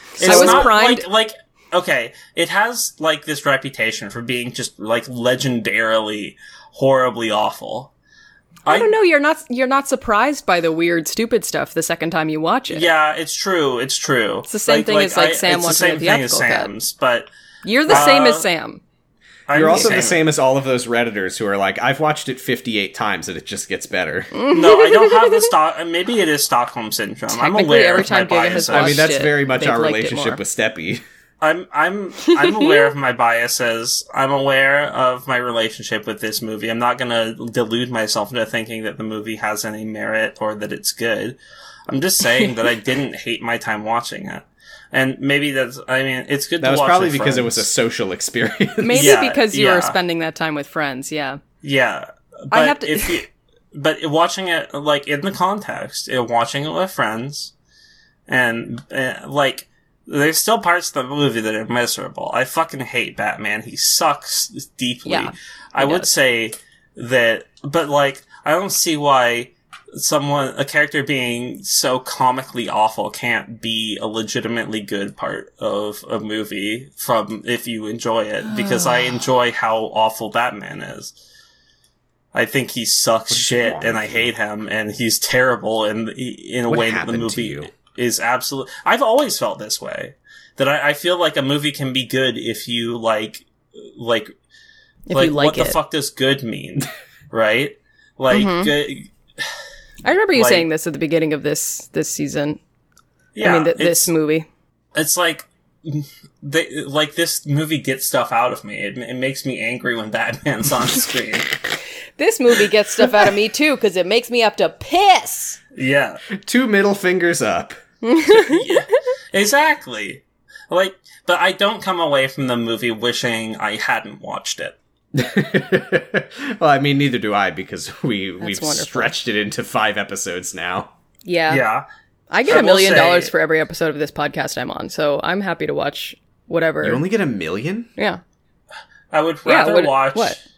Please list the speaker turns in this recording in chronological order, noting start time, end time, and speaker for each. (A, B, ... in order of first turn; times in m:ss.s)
0:00.2-0:07.9 A
0:00.2-0:00.7 B
0:00.2-0:01.1 C
0:08.7-0:08.9 A
0:08.7-0:12.9 C
0:12.7-0:17.3 A
0:14.5-0:16.7 C
0:17.6-0:18.8 C
0:17.9-0:18.5 A
0:19.5-0:20.2 A
0:19.5-0:24.3 B
0:19.6-0:20.0 C
0:24.3-0:25.4 C
0:24.5-0:29.1 A
0:27.3-0:30.4 C
0:28.6-0:31.0 B
0:31.4-0:47.7 A
0:32.3-0:32.9 C
0:46.6-0:49.2 B
0:48.8-0:51.4 C
0:48.9-0:50.0 A
0:51.6-0:57.5 A
0:52.5-0:53.2 C
0:58.3-1:21.1 A
1:05.0-1:06.1 C
1:22.3-1:34.3 A
1:23.3-1:24.3 B
1:26.7-1:27.7 B
1:35.1-1:35.8 C
1:35.1-1:39.1 A
1:38.3-1:38.7 C
1:40.0-1:42.6 C
1:40.3-1:40.7 A
1:43.4-1:44.1 A
1:43.4-1:44.5 C
1:45.0-1:51.5 A
1:52.2-1:55.6 C
1:55.8-1:56.2 A
1:56.4-1:57.8 B
1:58.0-1:58.7 C
1:58.3-2:04.8 A
2:05.2-2:10.9 B
2:08.4-2:09.1 C
2:11.3-2:11.6 C
2:11.5-2:11.8 A
2:12.3-2:17.0 C
2:12.5-2:13.3 A
2:16.8-2:17.9 B
2:19.1-2:20.4 A
2:19.5-2:20.4 C